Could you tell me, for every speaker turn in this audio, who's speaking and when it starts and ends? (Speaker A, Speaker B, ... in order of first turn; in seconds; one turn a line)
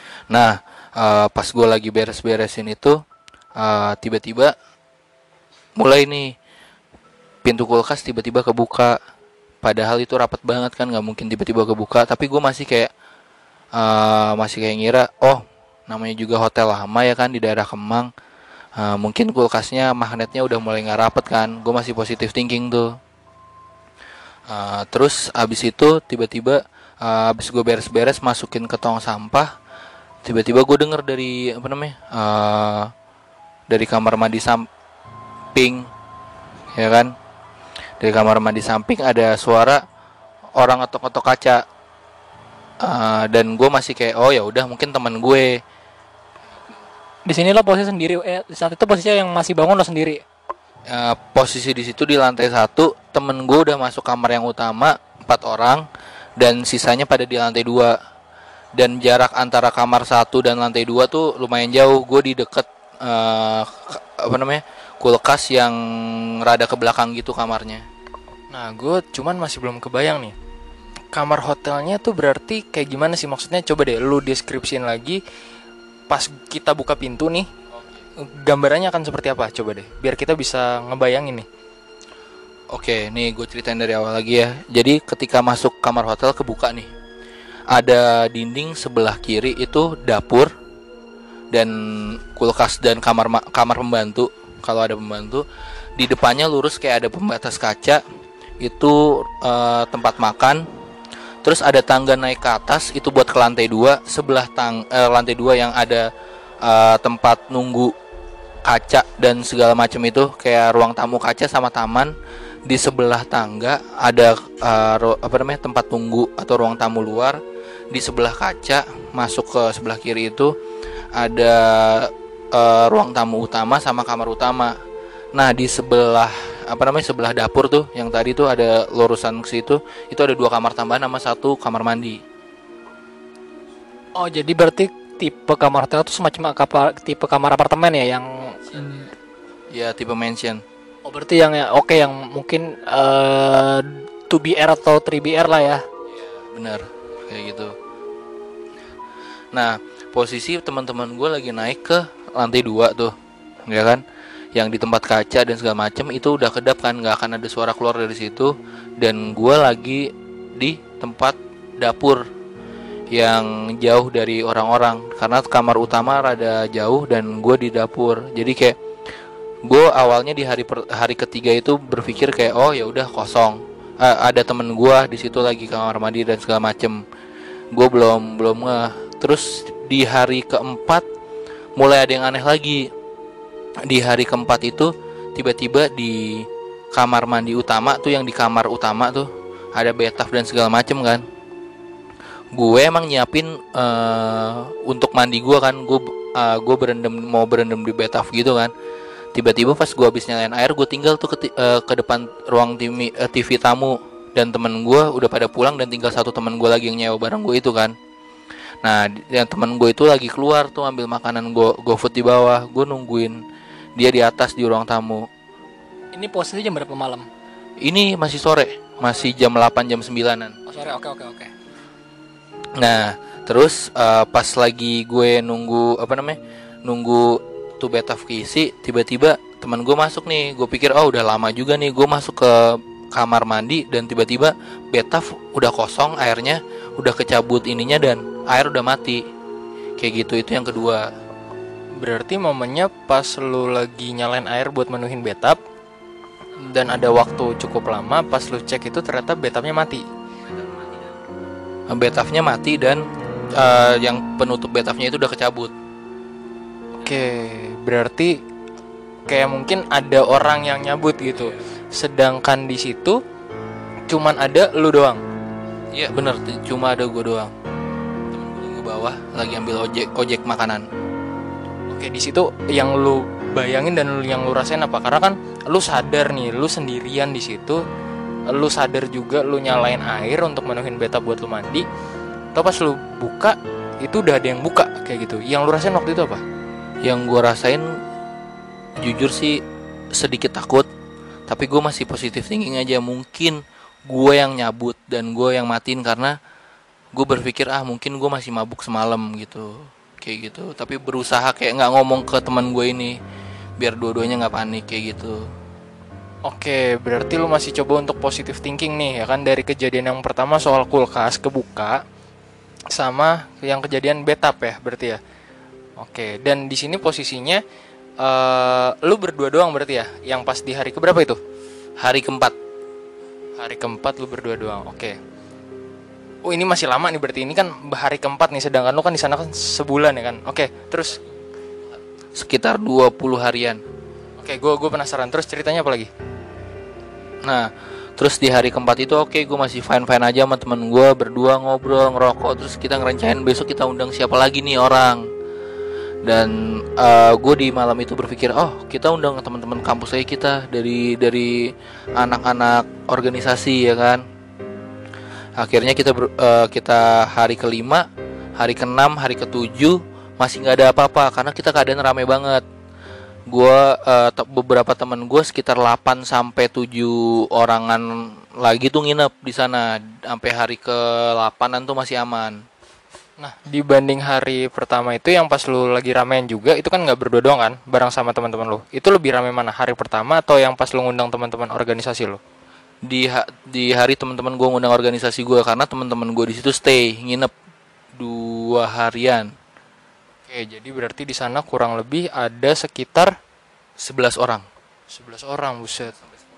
Speaker A: 0.3-3.0
Speaker A: 3.6-4.5
Speaker A: 5.8-6.3
Speaker A: 7.4-8.9
Speaker A: 9.6-12.9
Speaker A: 13.7-18.1
Speaker A: 18.8-22.9
Speaker A: 24.5-29.5
Speaker A: 30.2-32.9
Speaker A: 33.7-34.7
Speaker A: 35.5-35.9
Speaker A: 36.7-37.1
Speaker A: 38.0-39.8
Speaker A: 40.6-41.6
Speaker A: 42.8-45.6
Speaker B: 47.3-50.2
Speaker A: 50.9-55.9
Speaker A: 56.4-57.9
Speaker A: 58.7-67.8
Speaker C: 68.5-70.3
Speaker C: 71.1-75.2
Speaker C: 76.1-77.5
Speaker C: 78.2-81.5
Speaker A: 82.7-86.9
Speaker A: 87.7-90.5
Speaker A: 91.5-95.4
Speaker A: 96.0-98.0
Speaker A: 98.6-100.6
Speaker A: 101.4-106.1
Speaker A: 106.6-107.9
Speaker A: 108.6-112.1
Speaker A: 112.7-117.4
Speaker A: 117.9-120.5
Speaker A: 121.1-124.7
Speaker A: 125.3-132.2
Speaker B: 134.2-139.1
Speaker A: 139.7-140.6
Speaker B: 141.1-145.8
Speaker A: 146.1-147.7
Speaker A: 149.5-153.1
Speaker A: 153.7-154.0
Speaker A: 154.5-162.2
Speaker A: 163.1-168.7
Speaker A: 169.7-177.0
Speaker A: 177.7-181.0
Speaker A: 181.8-182.9
Speaker A: 183.9-191.2
Speaker A: 192.5-198.7
Speaker A: 199.3-207.9
Speaker A: 208.8-213.4
Speaker A: 213.9-215.3
Speaker B: 216.1-217.3
Speaker A: 217.8-220.6
Speaker B: 220.7-221.5
Speaker A: 222.8-239.2
Speaker A: 240.0-241.0
Speaker C: 242.0-245.6
Speaker C: 246.6-250.0
Speaker A: 251.9-255.7
Speaker C: 257.0-258.4
Speaker C: 259.2-263.2
Speaker C: 264.1-265.2
Speaker A: 265.9-267.5
Speaker A: 268.3-270.9
Speaker C: 271.9-277.8
Speaker C: 278.5-281.9
Speaker C: 282.5-286.4
Speaker A: 287.0-288.0
Speaker A: 289.0-289.6
Speaker A: 290.1-290.9
Speaker A: 291.5-296.3
Speaker A: 297.1-303.2
Speaker A: 303.8-305.5
Speaker C: 306.4-312.0
Speaker C: 312.9-315.2
Speaker C: 316.0-317.6
Speaker C: 318.2-321.4
Speaker A: 322.0-322.5
Speaker C: 323.6-325.2
Speaker C: 326.4-331.2
Speaker A: 332.3-333.8
Speaker C: 334.4-336.1
Speaker A: 337.4-345.3
Speaker A: 346.2-354.2
Speaker A: 355.6-362.6
Speaker A: 363.5-372.6
Speaker C: 373.4-382.4
Speaker A: 383.1-387.5
Speaker A: 388.1-389.5
Speaker C: 390.5-393.3
Speaker A: 394.0-394.6
Speaker C: 395.1-396.1